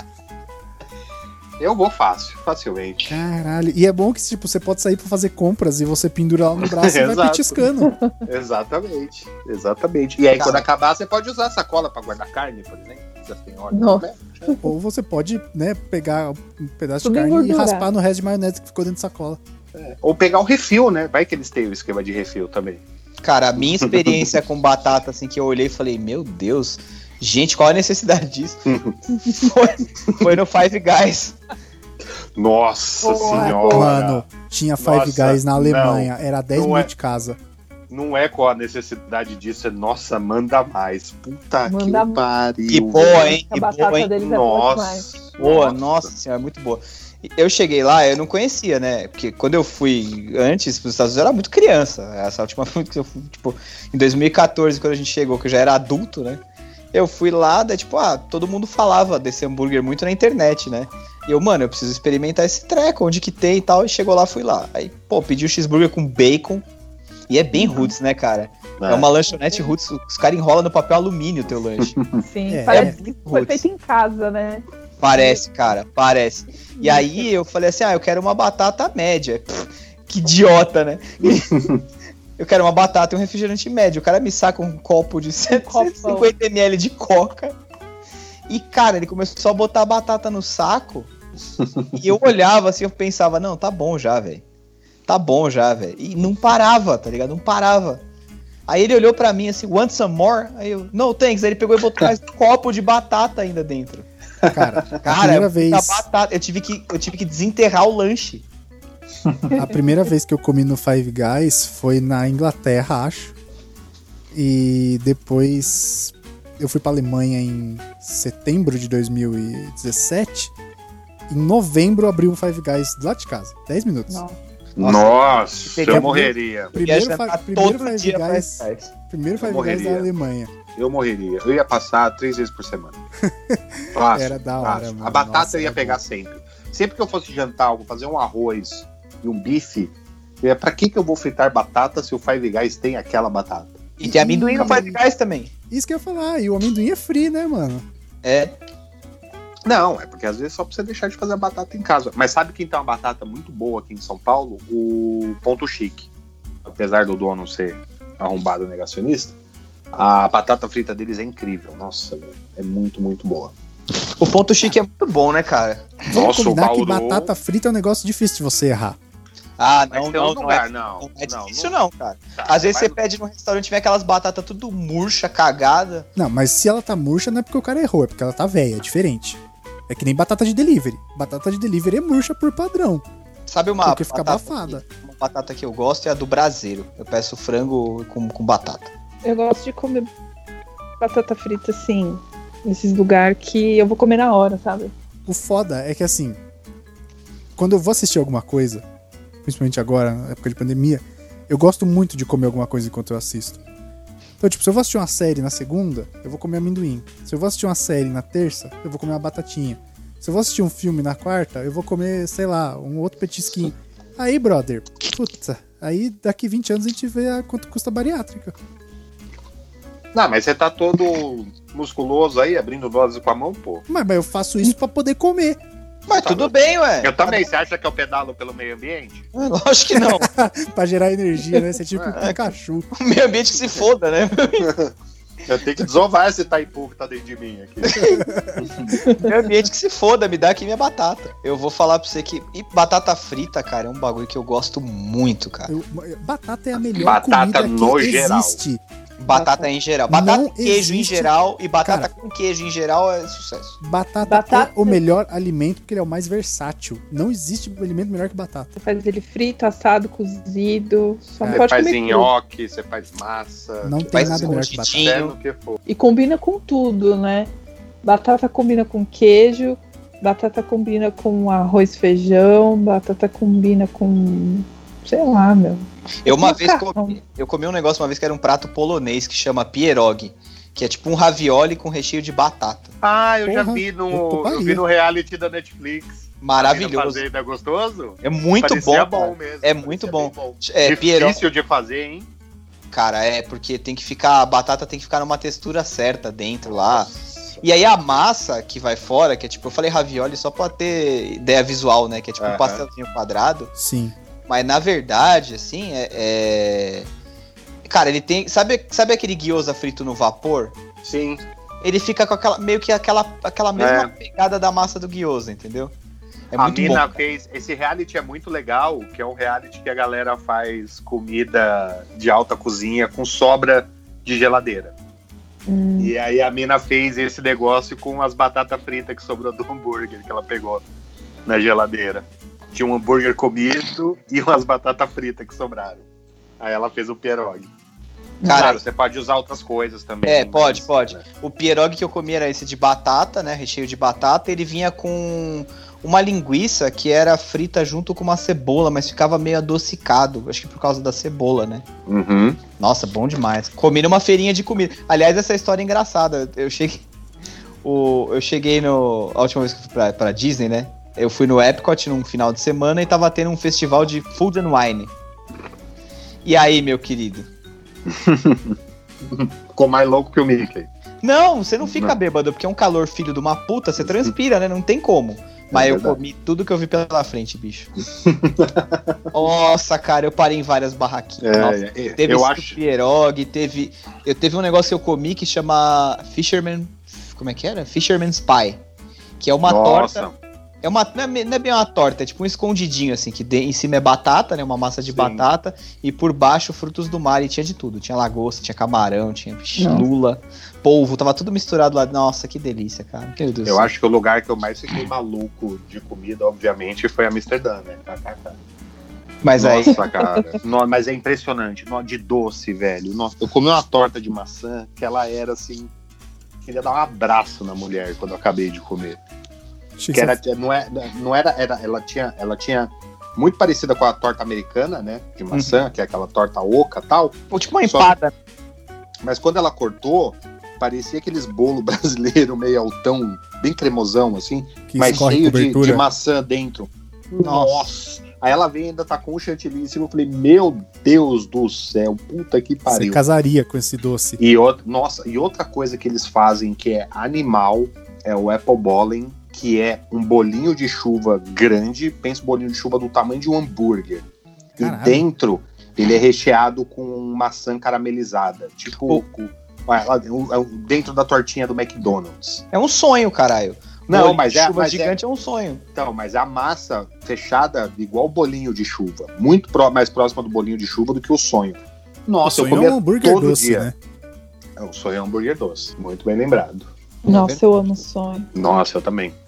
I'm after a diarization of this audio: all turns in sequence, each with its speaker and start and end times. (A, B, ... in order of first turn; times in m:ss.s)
0:01.6-0:03.2 A
0:03.1-0:07.9 B
0:06.6-0:07.6 A
0:07.8-0:08.2 C
0:08.2-0:14.6 A
0:10.3-0:10.6 D
0:13.7-0:14.6 C
0:14.6-0:19.4 B
0:17.0-0:17.9 C
0:19.7-0:22.8 A
0:23.2-0:28.6 D
0:23.6-0:24.2 A
0:28.7-0:29.0 A
0:29.2-0:31.4 D
0:32.3-0:34.2 A
0:33.0-0:33.9 C
0:33.3-0:37.4 B
0:34.8-0:36.9 A
0:37.9-0:43.4 A
0:41.6-0:42.2 C
0:42.7-0:44.1 D
0:43.2-0:45.1 C
0:44.2-0:46.1 A
0:45.4-0:56.4 D
0:56.9-1:06.6 D
1:07.3-1:12.0 D
1:07.5-1:07.9 C
1:08.8-1:09.1 A
1:09.3-1:09.7 C
1:11.8-1:12.2 A
1:12.2-1:15.4 C
1:12.5-1:13.0 B
1:12.7-1:13.6 D
1:15.0-1:21.7 D
1:16.8-1:17.3 C
1:21.5-1:21.8 A
1:22.4-1:27.5 D
1:25.5-1:26.3 C
1:28.5-1:31.1 D
1:31.9-1:34.4 D
1:35.1-1:38.0 D
1:38.7-1:44.0 D
1:44.4-1:46.0 B
1:45.0-1:48.4 D
1:49.5-1:53.3 B
1:54.3-2:00.5 B
2:01.3-2:04.2 B
2:04.1-2:04.3 C
2:04.8-2:06.7 A
2:04.8-2:08.9 D
2:05.8-2:10.5 B
2:09.4-2:10.1 A
2:10.7-2:13.0 A
2:13.2-2:16.0 B
2:13.9-2:23.8 A
2:24.0-2:25.5 D
2:24.0-2:25.0 B
2:24.6-2:24.8 A
2:25.7-2:27.8 B
2:28.2-2:28.5 D
2:29.6-2:36.1 A
2:36.6-2:39.3 A
2:39.9-2:43.5 A
2:44.2-2:46.0 D
2:46.1-2:47.3 A
2:46.1-2:49.0 B
2:49.6-2:56.1 D
2:49.9-2:51.7 A
2:52.4-2:53.0 A
2:56.2-3:03.0 B
3:03.5-3:08.9 D
3:03.8-3:04.8 B
3:09.2-3:10.1 C
3:11.0-3:14.9 C
3:15.3-3:16.4 B
3:17.6-3:18.8 B
3:19.4-3:23.6 B
3:24.4-3:38.5 B
3:40.1-3:43.8 A
3:43.9-3:45.6 B
3:46.1-3:47.4 D
3:46.1-3:49.3 A
3:49.3-3:50.3 D
3:50.0-3:52.9 B
3:51.9-3:52.2 A
3:52.9-3:54.7 D
3:54.6-3:54.9 A
3:55.4-3:59.0 A
3:57.8-3:58.2 D
3:58.0-3:58.7 B
3:59.0-3:59.3 C
3:59.1-4:05.7 D
4:05.7-4:08.8 B
4:07.0-4:08.6 A
4:09.2-4:13.8 D
4:09.3-4:09.7 C
4:10.1-4:11.3 B
4:11.8-4:12.1 B
4:13.8-4:18.7 B
4:14.2-4:15.0 C
4:18.8-4:22.3 C
4:21.4-4:21.7 B
4:21.5-4:25.8 A
4:23.8-4:25.1 B
4:24.1-4:25.3 D
4:25.9-4:27.5 C
4:28.0-4:37.2 C
4:36.2-4:42.9 D
4:43.0-4:52.3 A
4:43.4-4:44.8 B
4:46.4-4:47.2 D
4:48.2-4:51.4 D
4:52.9-4:57.1 D
4:56.6-4:57.6 A
4:57.6-5:03.7 D
5:02.4-5:02.8 A
5:03.8-5:04.1 B
5:04.5-5:07.1 D
5:07.8-5:10.8 D
5:11.0-5:11.4 A
5:11.8-5:15.9 D
5:13.8-5:14.1 A
5:16.5-5:17.2 D
5:16.6-5:24.9 A
5:25.7-5:26.1 C
5:26.0-5:30.8 A
5:31.4-5:36.0 A
5:36.6-5:37.7 A
5:38.4-5:38.7 C
5:38.4-5:38.8 D
5:38.5-5:41.2 A
5:40.2-5:51.8 D
5:52.1-5:52.6 A
5:52.8-5:57.0 D
5:57.8-6:05.1 D
6:06.4-6:07.5 D
6:08.1-6:10.9 A
6:11.2-6:17.9 D
6:11.8-6:12.1 A
6:14.0-6:14.3 A
6:15.7-6:16.2 A
6:18.2-6:19.2 A
6:19.3-6:28.8 D
6:21.4-6:22.8 A
6:29.4-6:30.2 D
6:29.6-6:30.3 A
6:30.8-6:43.9 D
6:35.1-6:35.4 A
6:39.8-6:40.0 C
6:43.6-6:48.6 A
6:49.4-6:50.0 D
6:49.6-6:55.9 A
6:49.9-6:50.2 C
6:56.6-6:59.2 A
7:00.0-7:00.4 B
7:00.1-7:08.1 A
7:05.5-7:05.8 D
7:07.5-7:08.3 D
7:09.2-7:23.2 A
7:14.9-7:16.0 B
7:17.4-7:17.9 D
7:22.9-7:24.4 B
7:24.4-7:42.6 A
7:34.8-7:35.2 B
7:42.7-7:45.8 D
7:44.1-7:45.2 A
7:45.9-7:53.9 A
7:52.4-7:53.9 B
7:54.8-7:56.9 A
7:57.2-7:57.6 D
7:57.2-7:58.5 C
7:58.5-7:59.3 A